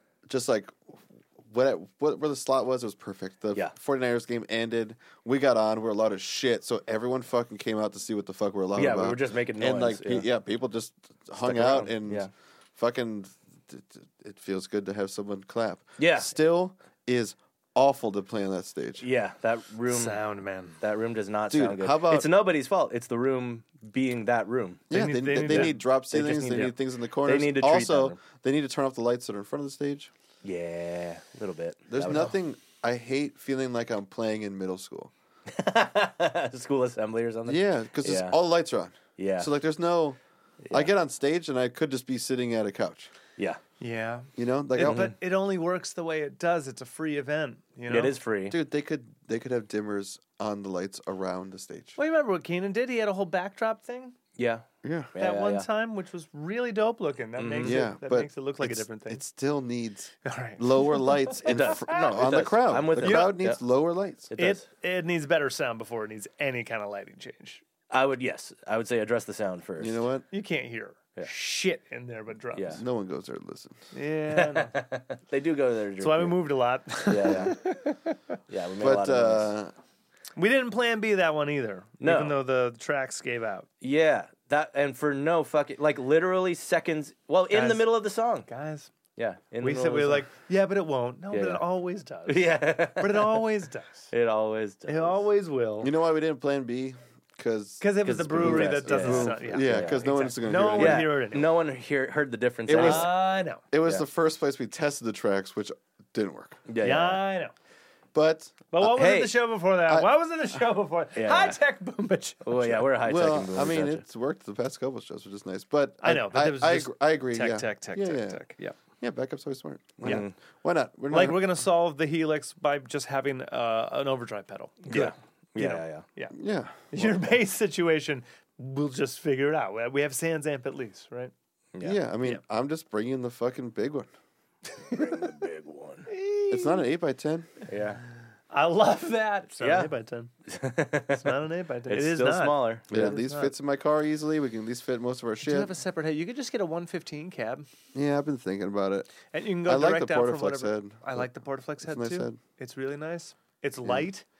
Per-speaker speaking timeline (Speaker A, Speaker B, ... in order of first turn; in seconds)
Speaker A: 0.2-19.1, 21.5-22.3, 24.9-30.1, 31.9-35.1, 37.5-40.2, 40.7-43.1, 44.4-45.1, 48.5-52.0, 54.8-55.1, 57.6-64.3, 69.8-70.2, 72.7-73.8, 78.8-79.7, 95.8-101.1, 102.7-103.2, 103.7-106.6, 108.1-108.6, 113.0-118.4, 119.0-121.4, 126.3-127.2, 131.8-134.1, 136.5-137.5, 142.9-145.7, 147.9-151.3, 151.8-152.4
Speaker B: 8.8-10.3, 11.4-12.3, 16.0-16.3, 19.0-20.2, 20.8-24.9, 25.4-28.2, 30.4-32.4, 35.5-38.4, 39.2-39.5, 40.6-40.9, 44.8-45.1, 47.9-48.6, 54.4-55.7, 57.4-57.9, 61.5-63.6, 64.3-64.6, 67.9-70.1, 72.5-72.8, 74.3-76.4, 77.1-77.6, 78.5-79.5, 82.0-82.4, 83.8-88.5, 89.1-90.3, 91.3-91.6, 92.2-93.4, 94.1-95.2, 98.0-103.1, 106.7-107.2, 108.8-109.4, 111.2-111.6, 112.4-114.0, 120.0-120.3, 124.9-126.1, 131.7-132.0, 134.9-136.1, 137.7-138.0, 139.6-139.9, 140.5-141.3, 141.9-143.1
Speaker C: 19.9-20.8, 24.9-25.8, 32.0-32.3, 43.8-48.1, 52.0-54.1, 55.2-59.2, 60.2-62.1, 63.0-63.4, 64.4-67.6, 70.3-72.8, 73.9-74.8, 76.0-78.2, 80.4-83.7, 87.5-87.9, 88.5-88.9, 89.6-94.1, 94.9-95.9, 97.8-101.6, 102.7-103.6, 106.8-107.5, 108.7-112.9, 116.0-118.7, 121.1-126.3, 126.9-131.3, 134.8-135.4, 136.1-136.9, 138.5-140.3, 141.1-143.5, 145.4-147.7, 149.3-154.2